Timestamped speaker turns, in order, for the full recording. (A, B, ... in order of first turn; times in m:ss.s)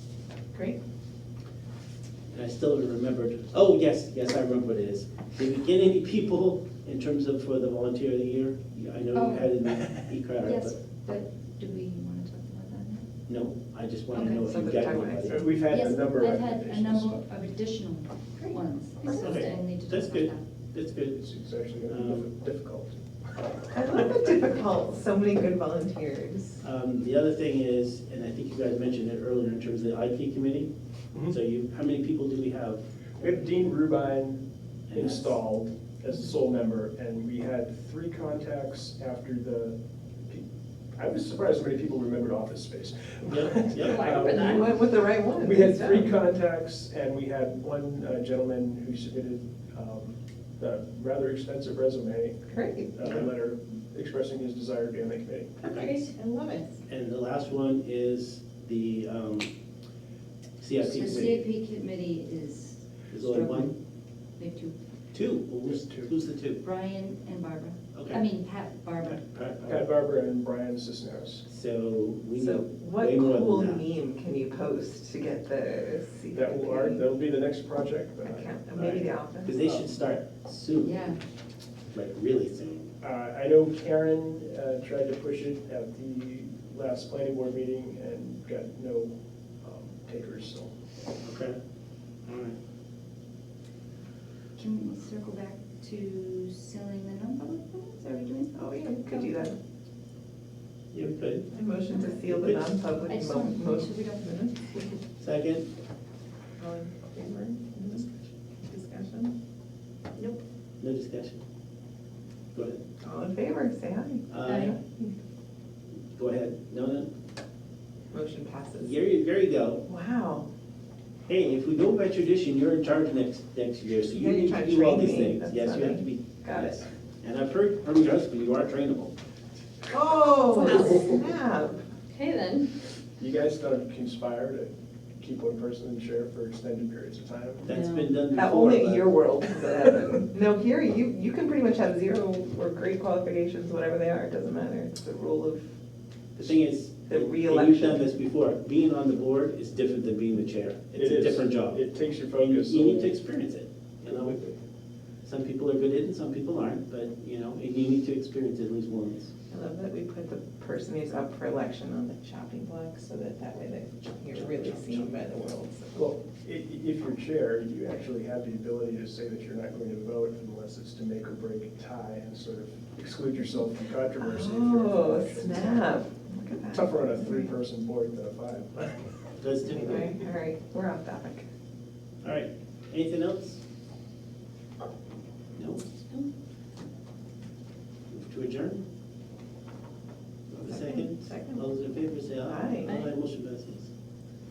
0:00.5-0:00.8 A
0:02.3-0:10.8 B
0:09.2-0:09.5 C
0:10.4-0:13.1 C
0:13.3-0:15.5 B
0:14.2-0:15.5 A
0:15.3-0:17.2 D
0:15.6-0:20.4 C
0:19.1-0:21.2 B
0:21.2-0:23.0 D
0:21.9-0:22.3 B
0:23.7-0:26.6 A
0:26.6-0:30.7 B
0:31.3-0:32.8 B
0:33.2-0:40.4 D
0:34.9-0:35.3 B
0:40.9-0:55.5 D
0:43.2-0:44.3 B
0:43.8-0:44.6 C
0:44.2-0:46.1 A
0:52.5-0:53.1 A
0:55.6-0:56.0 B
0:56.0-0:56.8 A
0:56.9-0:59.5 B
1:00.6-1:01.4 B
1:00.8-1:03.7 C
1:03.1-1:03.7 B
1:04.4-1:04.7 C
1:05.1-1:06.6 B
1:05.7-1:06.1 D
1:06.6-1:09.2 C
1:07.9-1:08.2 B
1:09.0-1:09.9 B
1:09.6-1:11.4 D
1:11.5-1:13.8 B
1:12.3-1:17.0 A
1:16.3-1:19.1 D
1:18.2-1:19.6 A
1:19.4-1:21.2 B
1:19.6-1:19.8 D
1:20.8-1:21.2 C
1:21.9-1:22.9 B
1:23.0-1:30.7 D
1:31.2-1:31.6 B
1:32.2-1:32.6 B
1:34.6-1:39.3 C
1:38.5-1:39.5 A
1:40.9-1:41.5 B
1:41.5-1:44.5 A
1:41.9-1:42.2 C
1:42.3-1:42.6 B
1:43.1-1:44.3 C
1:45.2-1:45.7 B
1:46.6-1:48.0 A
1:48.6-1:49.3 A
1:50.8-1:51.4 B
1:52.5-1:52.8 B
1:53.0-1:55.1 A
1:54.3-1:54.8 B
1:54.4-1:54.7 C
1:56.1-1:57.1 B
1:58.1-1:59.0 A
1:58.8-1:59.8 B
1:59.8-2:00.5 A
2:01.3-2:09.1 B
2:04.1-2:06.8 A
2:09.9-2:11.8 A
2:13.2-2:17.6 D
2:17.6-2:19.1 B
2:17.7-2:18.1 C
2:18.3-2:25.6 A
2:26.4-2:34.4 B
2:27.1-2:28.1 A
2:31.0-2:33.2 D
2:34.0-2:34.6 D
2:35.2-2:39.3 B
2:39.5-2:46.0 A
2:44.3-2:45.1 B
2:45.9-2:55.9 D
2:54.2-2:57.5 A
2:56.7-2:59.1 D
2:59.4-3:00.2 B
2:59.7-3:01.4 A
3:02.2-3:03.6 B
3:05.5-3:05.8 B
3:08.1-3:08.8 B
3:10.5-3:13.9 B
3:10.7-3:11.6 A
3:12.4-3:13.0 A